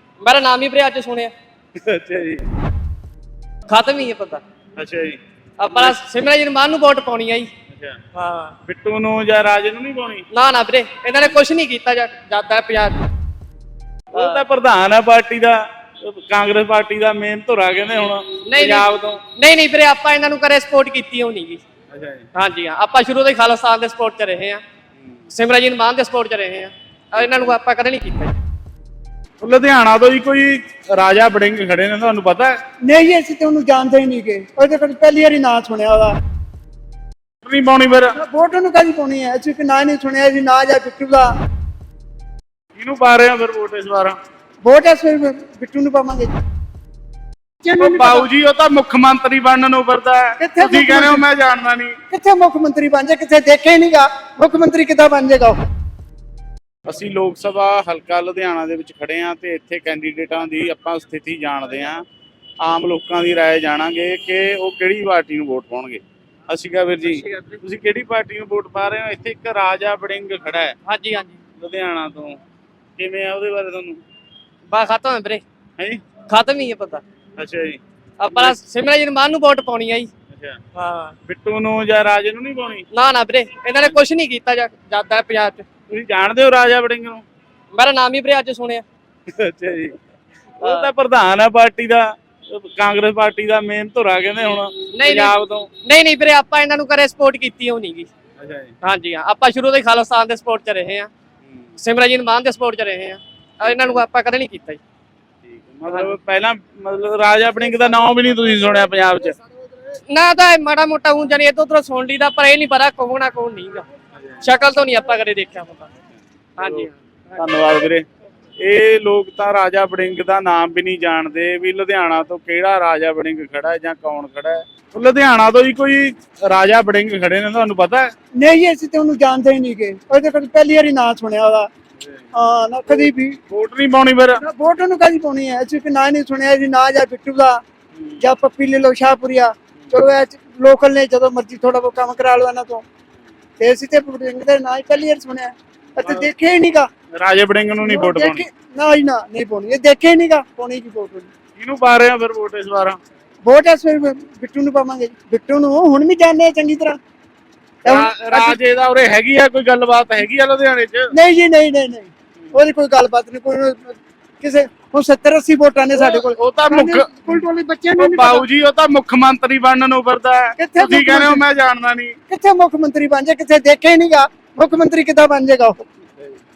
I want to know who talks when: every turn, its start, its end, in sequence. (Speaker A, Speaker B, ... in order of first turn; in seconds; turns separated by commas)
Speaker A: 0.2-1.3, Speaker B: 1.8-2.4, Speaker A: 3.7-4.4, Speaker B: 4.8-5.2, Speaker A: 5.6-7.5, Speaker B: 5.7-6.0, Speaker B: 7.7-8.0, Speaker A: 8.1-8.6, Speaker B: 8.7-10.2, Speaker A: 10.3-13.0, Speaker B: 14.1-19.2, Speaker A: 14.1-14.4, Speaker A: 18.5-21.6, Speaker B: 21.9-22.2, Speaker A: 22.3-24.6, Speaker A: 25.3-28.4, Speaker B: 27.2-27.5, Speaker B: 29.4-32.6, Speaker C: 32.8-36.1, Speaker B: 37.4-38.1, Speaker C: 38.1-41.3, Speaker B: 42.8-44.1, Speaker C: 44.6-46.3, Speaker C: 47.6-48.3, Speaker B: 47.8-52.0, Speaker C: 50.4-51.2, Speaker C: 52.1-55.6, Speaker B: 56.9-62.0, Speaker B: 62.6-70.7, Speaker A: 67.2-67.6, Speaker A: 70.8-71.4, Speaker B: 71.6-72.4, Speaker B: 73.0-74.0, Speaker A: 74.7-75.4, Speaker A: 76.3-77.0, Speaker B: 77.4-77.8, Speaker A: 78.2-80.1, Speaker B: 78.3-78.6, Speaker B: 80.3-80.6, Speaker A: 80.7-81.2, Speaker B: 81.2-82.8, Speaker A: 82.9-85.6, Speaker B: 85.9-87.2, Speaker A: 87.7-88.8, Speaker B: 89.3-90.0, Speaker B: 90.6-95.7, Speaker A: 90.6-90.9, Speaker A: 94.9-98.1, Speaker B: 98.4-98.7, Speaker A: 98.8-101.1, Speaker A: 101.8-104.8, Speaker B: 103.6-104.0, Speaker B: 105.4-109.4, Speaker A: 110.1-113.8, Speaker A: 114.4-115.9, Speaker B: 116.6-118.0, Speaker A: 116.6-117.0, Speaker B: 118.6-128.1, Speaker C: 128.4-131.7, Speaker B: 132.0-132.3, Speaker C: 132.3-133.4, Speaker B: 133.0-134.4, Speaker C: 134.4-137.6, Speaker B: 137.9-138.2, Speaker C: 138.2-142.8, Speaker C: 143.6-146.9, Speaker B: 145.9-146.2, Speaker B: 147.2-148.4, Speaker C: 147.8-151.3, Speaker B: 151.6-153.0, Speaker C: 153.4-157.0, Speaker B: 157.8-161.1, Speaker C: 157.8-158.6, Speaker C: 161.1-168.4, Speaker B: 165.9-167.2, Speaker B: 168.0-172.2, Speaker C: 170.6-171.4, Speaker C: 172.3-175.8